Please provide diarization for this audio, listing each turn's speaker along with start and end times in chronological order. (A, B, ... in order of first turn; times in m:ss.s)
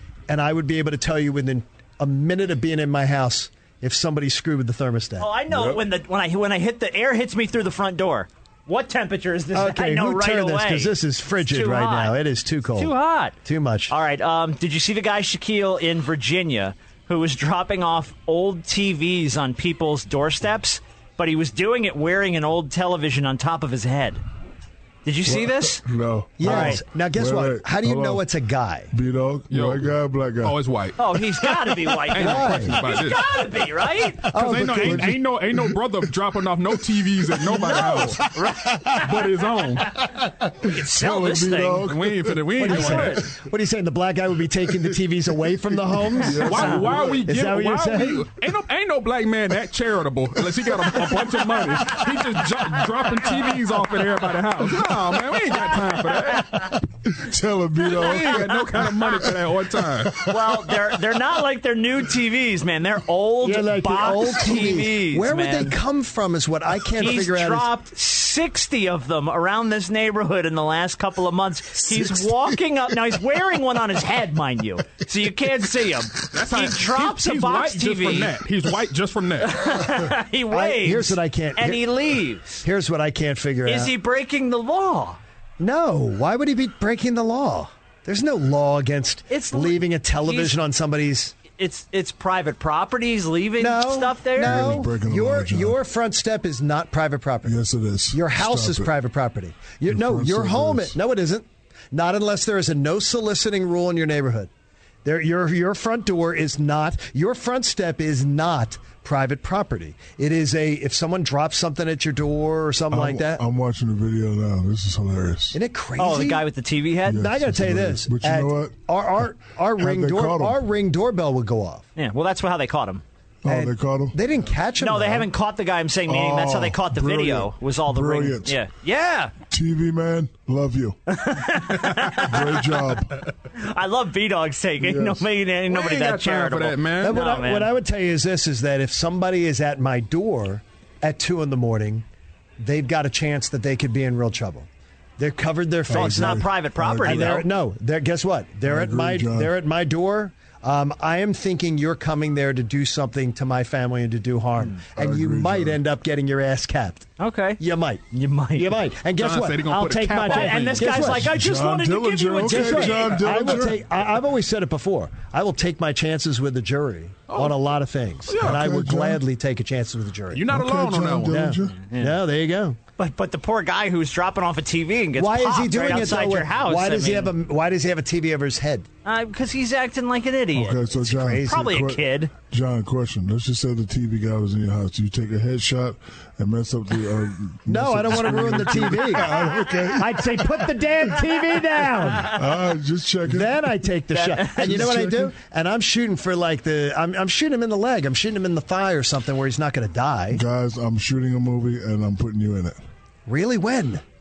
0:00.3-0:05.3 A
0:05.2-0:12.2 B
0:05.5-0:05.8 C
0:09.5-0:12.9 A
0:12.8-0:13.4 B
0:13.4-0:13.9 A
0:13.9-0:24.2 B
0:25.0-0:25.8 B
0:25.2-0:28.2 C
0:26.4-0:28.9 A
0:26.4-0:26.8 B
0:28.9-0:30.6 C
0:29.5-0:29.9 D
0:30.4-0:31.0 D
0:31.0-0:34.3 B
0:32.1-0:33.4 D
0:32.2-0:32.8 A
0:34.3-0:35.1 A
0:34.3-0:38.2 D
0:34.7-0:35.8 C
0:37.4-0:38.8 C
0:38.0-0:39.0 B
0:38.9-0:40.0 D
0:40.2-0:42.6 C
0:40.6-0:41.9 B
0:41.8-0:43.2 D
0:42.6-0:48.3 A
0:42.6-0:43.2 B
0:45.4-0:47.3 C
0:46.3-0:56.7 D
0:57.0-1:01.0 C
0:57.9-1:00.2 D
1:00.2-1:05.8 B
1:03.4-1:07.7 A
1:07.0-1:18.4 B
1:16.3-1:19.6 D
1:19.4-1:22.6 B
1:20.5-1:21.9 A
1:22.6-1:23.9 A
1:23.6-1:25.2 B
1:25.6-1:31.4 A
1:29.3-1:30.6 B
1:31.6-1:34.9 B
1:33.6-1:37.6 A
1:34.4-1:35.8 C
1:37.4-1:38.9 C
1:38.1-1:44.5 A
1:39.9-1:41.0 C
1:45.0-1:53.4 A
1:52.9-1:55.6 C
1:55.5-1:56.5 A
1:56.0-1:57.3 B
1:57.1-1:58.9 C
1:57.1-2:01.9 A
1:59.8-2:00.6 C
2:02.0-2:03.0 B
2:03.4-2:04.2 C
2:03.5-2:05.3 A
2:04.8-2:09.3 B
2:06.1-2:08.6 C
2:09.5-2:11.0 C
2:11.1-2:12.6 B
2:12.1-2:13.2 C
2:13.6-2:17.7 B
2:14.8-2:15.2 C
2:15.7-2:17.2 D
2:17.0-2:22.0 A
2:22.6-2:26.4 A
2:25.9-2:27.4 C
2:25.9-2:27.5 B
2:27.0-2:37.1 A
2:28.6-2:29.5 C
2:35.0-2:35.8 C
2:37.2-2:37.6 B
2:37.6-2:38.0 A
2:38.1-2:38.7 B
2:38.6-2:41.3 A
2:39.1-2:41.2 D
2:40.2-2:43.2 B
2:41.1-2:43.9 C
2:42.4-2:50.5 A
2:47.3-2:47.6 D
2:48.3-2:48.6 D
2:48.3-2:49.2 C
2:50.3-2:51.5 D
2:50.5-2:51.8 C
2:51.3-2:52.8 A
2:51.6-2:52.2 B
2:53.0-2:57.3 B
2:55.2-2:58.9 A
2:59.0-3:02.3 B
3:00.5-3:10.6 C
3:01.1-3:01.6 A
3:07.7-3:09.4 A
3:09.9-3:12.4 A
3:12.2-3:13.9 C
3:13.2-3:20.4 A
3:14.1-3:14.9 B
3:14.5-3:15.4 C
3:20.3-3:22.8 C
3:23.3-3:24.0 A